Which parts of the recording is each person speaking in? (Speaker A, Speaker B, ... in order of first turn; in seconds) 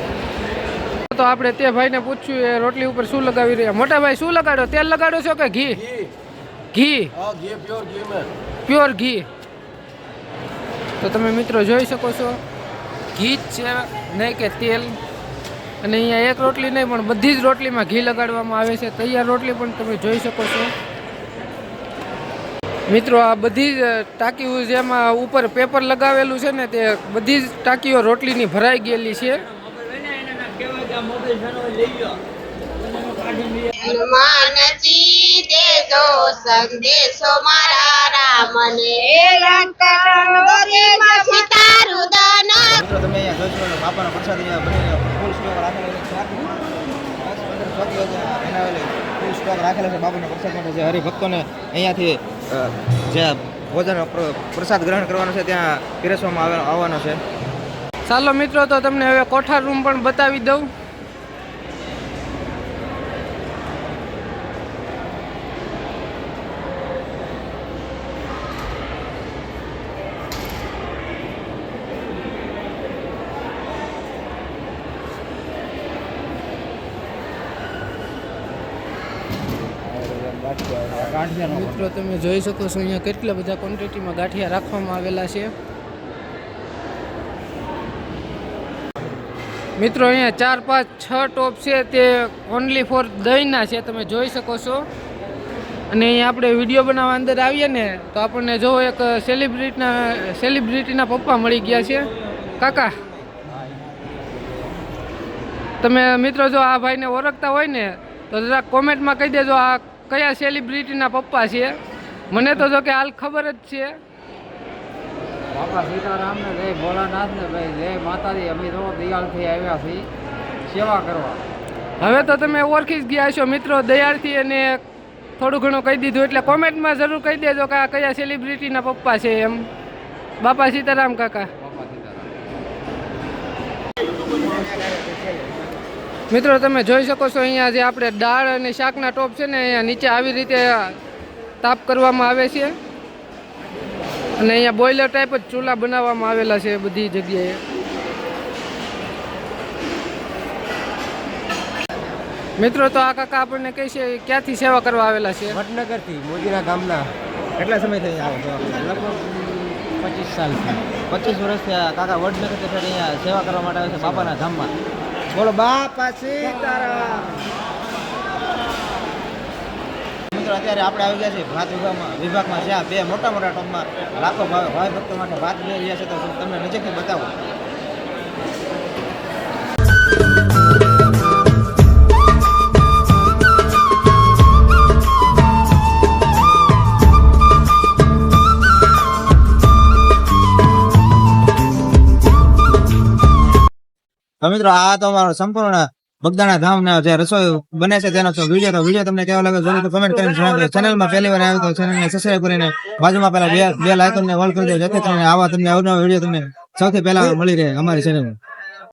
Speaker A: 1.1-5.8, 6.7-7.1, 8.6-9.3, 11.0-12.4, 13.1-15.0, 15.8-20.7, 22.9-29.4, 58.1-60.7, 81.4-85.5, 89.8-94.9, 95.9-102.1, 102.6-103.0, 105.8-111.8, 112.3-114.0, 122.0-124.8, 125.4-129.7, 130.4-131.5, 136.3-141.0, 141.6-142.8, 144.4-147.6, 152.6-155.6
Speaker B: 33.8-42.8
Speaker C: 42.7-46.6, 47.2-57.2, 157.6-159.1, 161.1-164.7, 165.3-167.4, 170.3-177.3, 194.4-208.4
Speaker D: 80.1-81.3, 115.5-120.1, 120.7-121.4